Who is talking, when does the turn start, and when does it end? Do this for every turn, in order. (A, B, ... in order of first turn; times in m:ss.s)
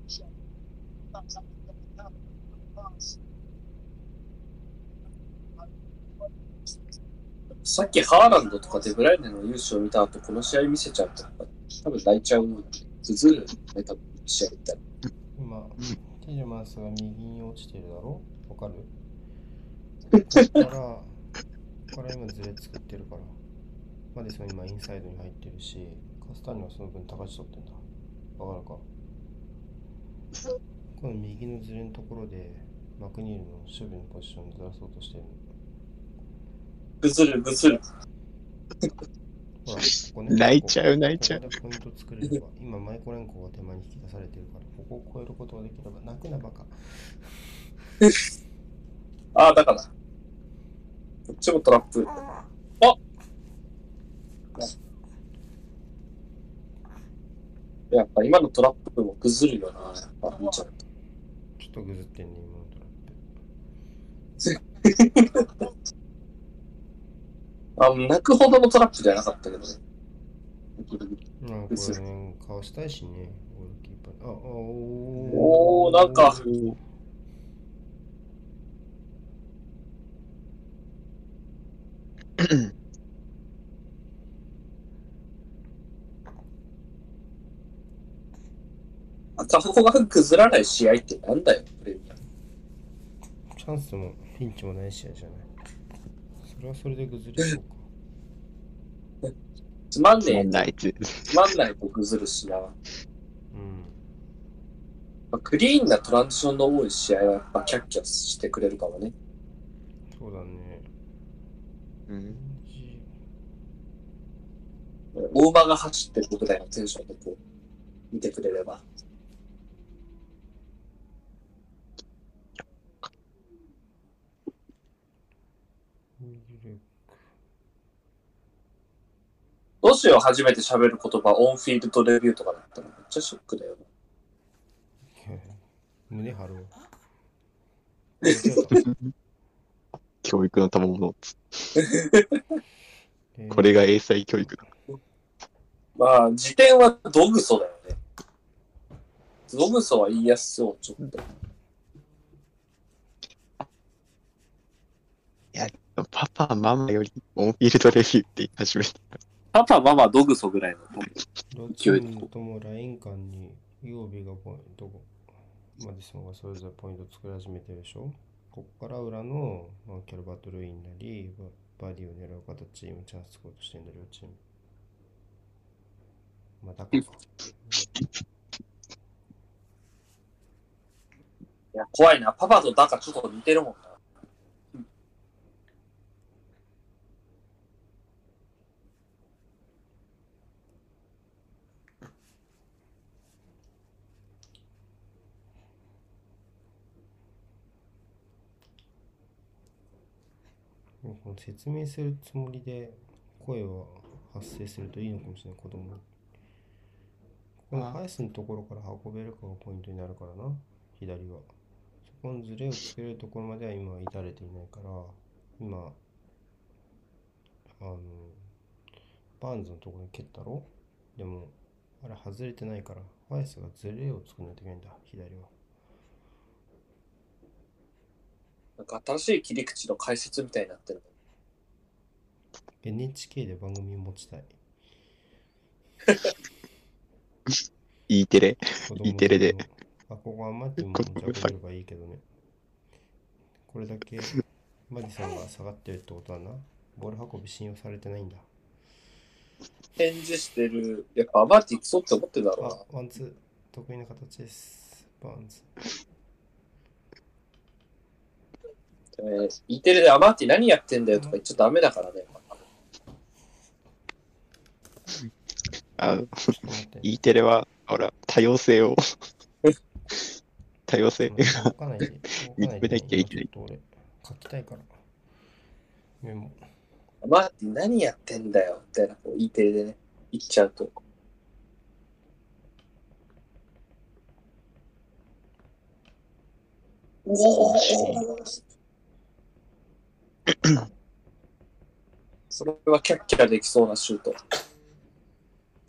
0:07.6-0:14.8 A
0:15.4-0:18.9 B
0:20.3-0:21.2 B
0:20.4-0:20.6 A
0:21.9-0:23.4 B
0:24.1-0:27.8 B
0:28.4-0:28.9 B
0:31.0-0:35.4 B
0:37.0-0:37.8 A
0:39.6-0:47.3 B
0:40.3-0:41.4 C
0:49.3-0:49.9 A
0:51.3-0:52.2 A
0:57.9-1:00.7 A
1:01.6-1:03.3 B
1:04.4-1:05.5 A
1:07.8-1:09.8 A
1:10.8-1:11.1 A
1:11.4-1:16.4 B
1:11.7-1:12.0 A
1:15.2-1:16.4 A
1:16.2-1:16.8 C
1:22.4-1:22.7 C
1:29.4-1:32.1 A
1:33.5-1:35.5 B
1:36.4-1:37.9 B
1:39.9-1:40.7 A
1:40.2-1:41.5 C
1:41.3-1:42.7 A
1:43.5-1:44.0 B
1:45.3-1:49.1 A
1:50.1-1:50.9 B
1:52.1-1:52.4 C
1:52.2-1:53.1 B
1:55.1-1:57.4 A
1:58.1-1:58.8 A
2:06.2-2:07.1 B
2:09.8-2:13.8 A
2:15.1-2:16.7 B
2:18.2-2:18.9 B
2:18.8-2:19.1 C
2:20.2-2:21.8 C
2:21.8-2:22.4 A
2:23.3-2:24.7 B
2:23.5-2:24.6 C
2:26.0-2:27.9 A
2:29.5-2:31.2 A
2:35.5-2:39.2 C
2:39.5-2:41.1 A
2:41.5-2:45.1 B
2:45.8-2:54.4 B
2:56.6-2:57.9 B
3:01.7-3:03.9 A
3:21.0-3:26.1 B
3:27.7-3:31.5 B
3:27.7-3:28.0 C
3:32.0-3:36.0 B
3:37.8-3:38.5 B
3:39.4-3:45.5 B
3:48.8-3:51.1 A
3:52.8-3:54.5 B
3:58.1-3:59.6 C
3:58.8-4:02.2 B
4:00.9-4:01.5 C
4:03.6-4:08.5 B
4:10.0-4:12.8 A
4:12.6-4:15.7 B
4:19.2-4:22.4 A
4:21.1-4:21.4 B
4:26.0-4:26.5 C
4:26.6-4:27.2 B
4:27.0-4:29.0 C
4:30.9-4:31.7 C
4:31.2-4:35.0 B
4:32.6-4:33.5 C
4:36.2-4:36.6 B
4:37.2-4:41.0 A
4:47.2-4:48.4 A
4:47.6-4:48.2 C
4:50.5-4:50.8 C
4:52.5-4:54.4 A